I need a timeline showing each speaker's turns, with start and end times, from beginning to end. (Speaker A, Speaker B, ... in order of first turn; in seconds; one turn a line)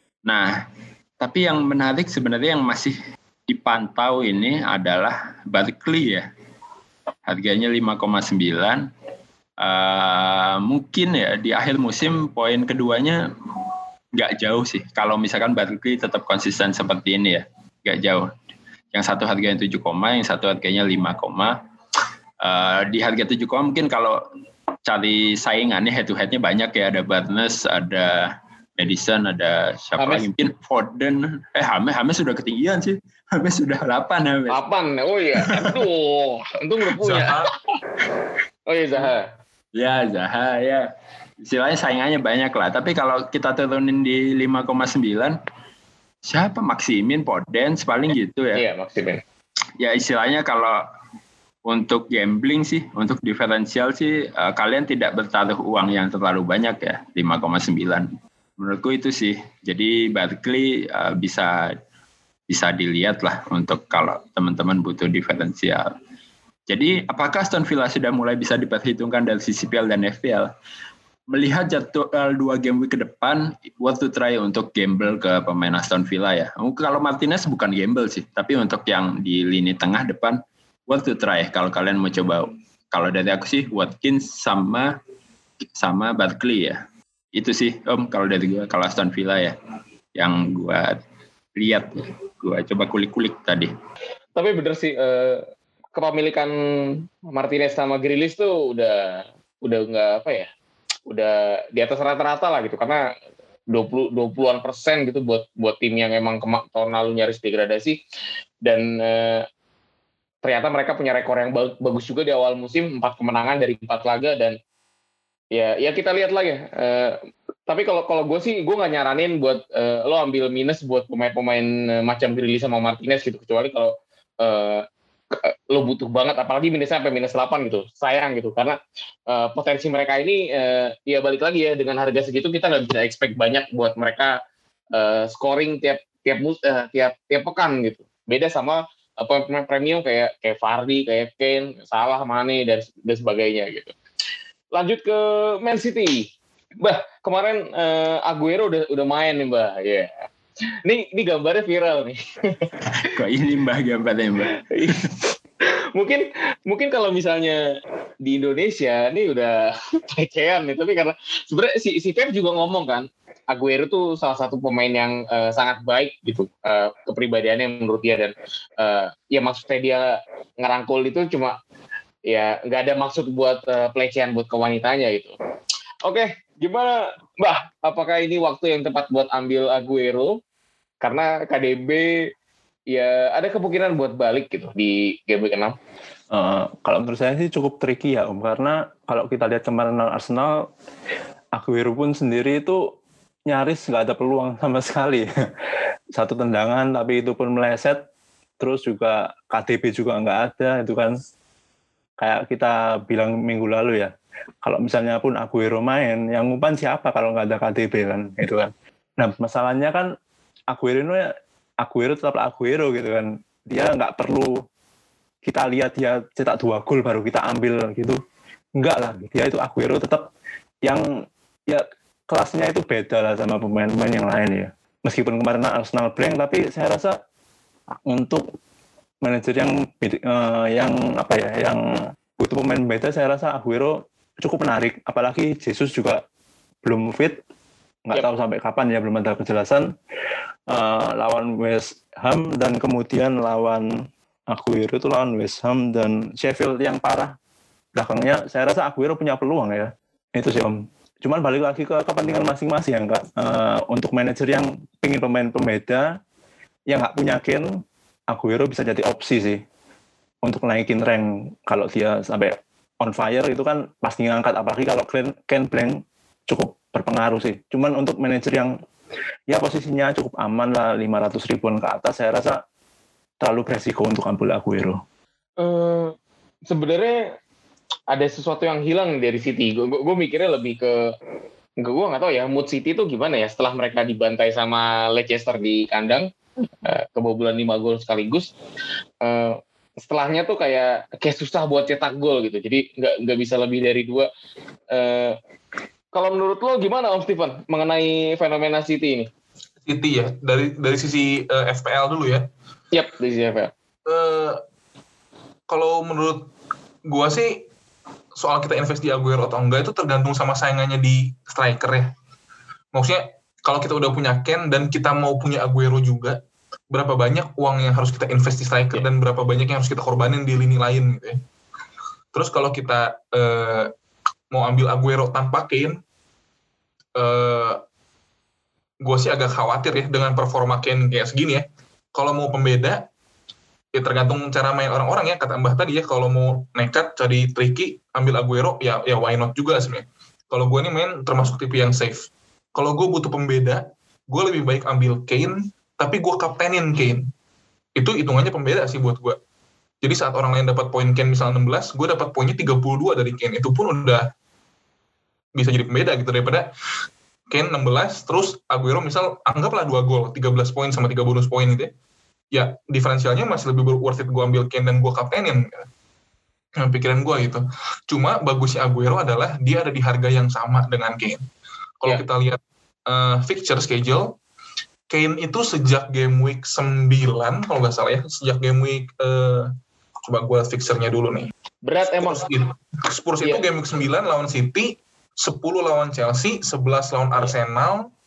Speaker A: 0.2-0.6
Speaker A: 1.2-6.3
Speaker A: 7.3-8.9
Speaker A: 9.6-13.2
Speaker A: 14.2-18.3
Speaker A: 18.9-21.6
Speaker A: 22.4-24.2
Speaker A: 24.9-34.6
Speaker B: 30.0-30.2
Speaker B: 34.5-37.5
Speaker A: 35.4-35.7
Speaker C: 37.0-37.5
Speaker B: 38.7-39.3
Speaker A: 39.7-40.9
Speaker A: 41.4-45.4
Speaker A: 46.2-48.6
Speaker B: 48.5-49.2
Speaker A: 49.8-50.8
Speaker A: 51.6-61.7
Speaker A: 62.5-66.0
Speaker A: 66.7-70.5
Speaker A: 71.3-85.0
Speaker A: 85.8-86.8
Speaker A: 87.3-89.6
Speaker A: 90.1-91.0
Speaker A: 91.6-93.7
Speaker B: 94.4-95.4
Speaker B: 95.9-96.5
Speaker B: 97.3-100.5
Speaker B: 101.1-103.0
Speaker B: 103.7-108.0
Speaker B: 108.6-109.4
Speaker B: 110.4-114.6
Speaker B: 115.5-128.8
Speaker B: 129.3-134.3
Speaker B: 134.9-143.9
Speaker B: 144.7-146.3
Speaker B: 146.8-150.1
Speaker B: 150.8-152.7
Speaker A: 153.0-155.1
Speaker B: 154.7-155.1
Speaker B: 155.9-157.6
Speaker B: 158.2-171.6
Speaker B: 172.3-175.3
Speaker B: 176.0-180.4
Speaker B: 181.0-182.1
Speaker B: 182.9-185.8
Speaker D: 186.3-190.7
Speaker D: 191.6-192.8
Speaker D: 193.5-195.3
Speaker D: 196.1-198.0
Speaker D: 198.6-201.2
Speaker D: 202.2-210.1
Speaker D: 210.7-214.6
Speaker D: 215.4-218.2
Speaker D: 218.8-220.3
Speaker D: 220.8-227.2
Speaker D: 228.1-228.4
Speaker D: 229.2-236.2
Speaker D: 236.8-237.4
Speaker D: 238.1-239.9
Speaker D: 240.7-247.3
Speaker D: 247.9-256.2
Speaker D: 256.9-257.8
Speaker D: 258.3-259.6
Speaker D: 260.4-268.7
Speaker D: 269.5-272.6
Speaker D: 273.4-275.0
Speaker B: 275.6-276.1
Speaker B: 276.6-277.2
Speaker B: 278.1-280.9
Speaker B: 281.8-286.3
Speaker B: 286.9-288.5
Speaker B: 289.2-294.3
Speaker B: 294.9-295.4
Speaker B: 296.1-299.3
Speaker C: 299.9-302.5
Speaker B: 302.9-303.7
Speaker C: 304.1-304.6
Speaker C: 305.7-306.5
Speaker C: 307.1-307.6
Speaker C: 308.4-312.1
Speaker C: 312.9-316.4
Speaker C: 316.9-321.4
Speaker C: 322.3-323.9
Speaker C: 324.5-326.0
Speaker C: 327.1-327.8
Speaker C: 329.0-333.1
Speaker C: 333.9-347.3
Speaker C: 347.9-349.4
Speaker C: 350.0-354.3
Speaker C: 355.6-356.7
Speaker C: 357.5-361.9
Speaker C: 362.5-365.9
Speaker C: 366.8-371.4
Speaker C: 372.0-374.4
Speaker C: 375.1-379.7
Speaker C: 380.2-381.5
Speaker B: 381.8-382.4
Speaker C: 382.1-388.1